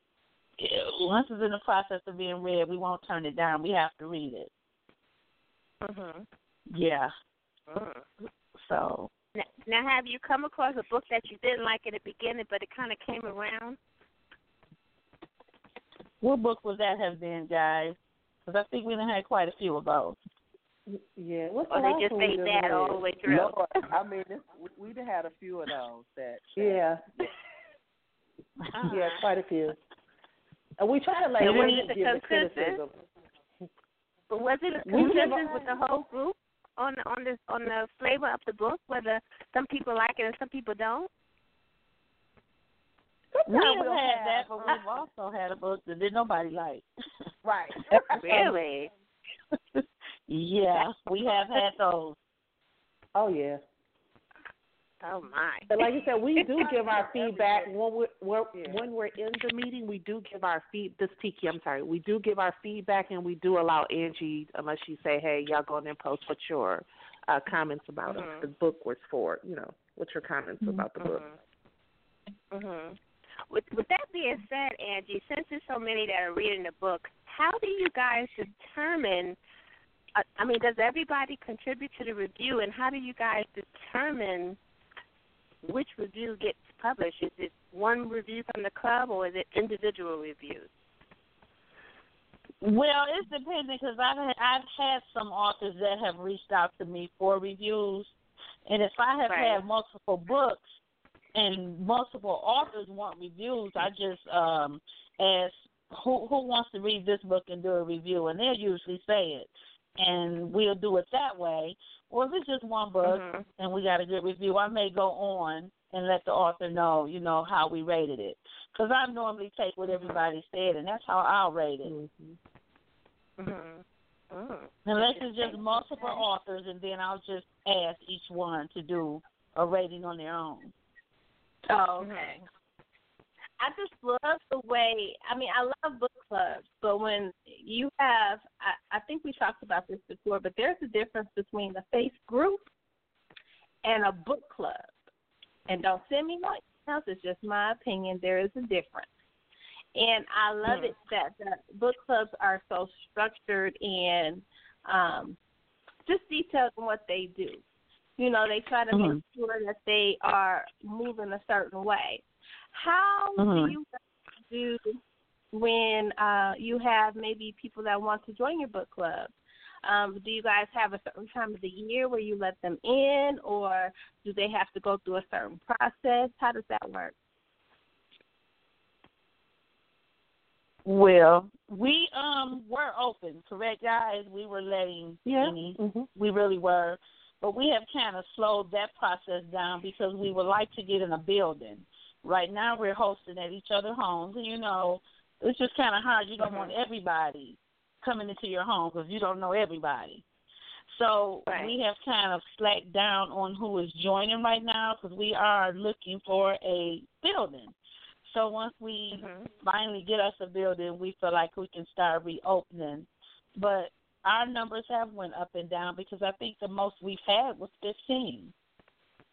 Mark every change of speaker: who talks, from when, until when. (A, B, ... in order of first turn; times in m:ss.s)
0:00.6-0:04.5 A
0:05.8-0:06.2 B
0:06.7-0:07.1 A
0:07.7-0:08.0 B
0:08.6-0:09.1 A
0:09.4-0:13.8 B
0:16.2-0:20.2 A
0:20.9-0:23.5 C
0:21.7-0:23.6 B
0:23.2-0:27.2 D
0:26.6-0:27.0 C
0:28.6-0:28.9 A
0:28.9-0:29.2 B
0:28.9-0:29.8 C
0:30.8-0:32.9 C
0:31.4-0:31.9 A
0:31.4-0:32.8 B
0:34.3-0:41.1 B
0:34.8-0:35.7 C
0:43.4-0:44.4 C
0:43.5-0:46.8 A
0:47.4-0:48.5 C
0:48.2-0:48.9 B
0:49.8-0:52.2 A
0:53.1-0:53.6 C
0:55.0-0:55.9 B
0:55.7-1:11.2 C
0:56.4-0:57.7 D
0:58.5-0:58.8 D
1:08.1-1:08.5 B
1:11.0-1:11.4 B
1:12.5-1:13.0 B
1:13.5-1:19.4 B
1:20.2-1:24.6 B
1:25.6-1:30.7 B
1:32.6-1:38.1 A
1:38.7-1:40.8 A
1:39.3-1:39.6 B
1:41.3-2:01.9 A
1:53.0-1:53.4 B
2:01.8-2:02.3 C
2:03.4-2:05.6 B
2:04.8-2:10.7 A
2:11.7-2:12.4 E
2:12.0-2:12.3 B
2:13.6-2:22.7 E
2:23.8-2:24.9 E
2:25.7-2:29.1 E
2:29.9-2:35.4 E
2:36.0-2:37.6 E
2:38.2-2:43.9 E
2:38.9-2:39.2 A
2:43.4-2:43.7 A
2:44.5-2:45.0 E
2:45.5-2:49.3 E
2:49.8-2:57.1 E
3:00.8-3:20.2 A
3:05.2-3:06.1 C
3:16.4-3:16.7 B
3:20.9-3:27.7 A
3:21.5-3:21.7 B
3:28.2-3:38.5 A
3:29.1-3:29.5 B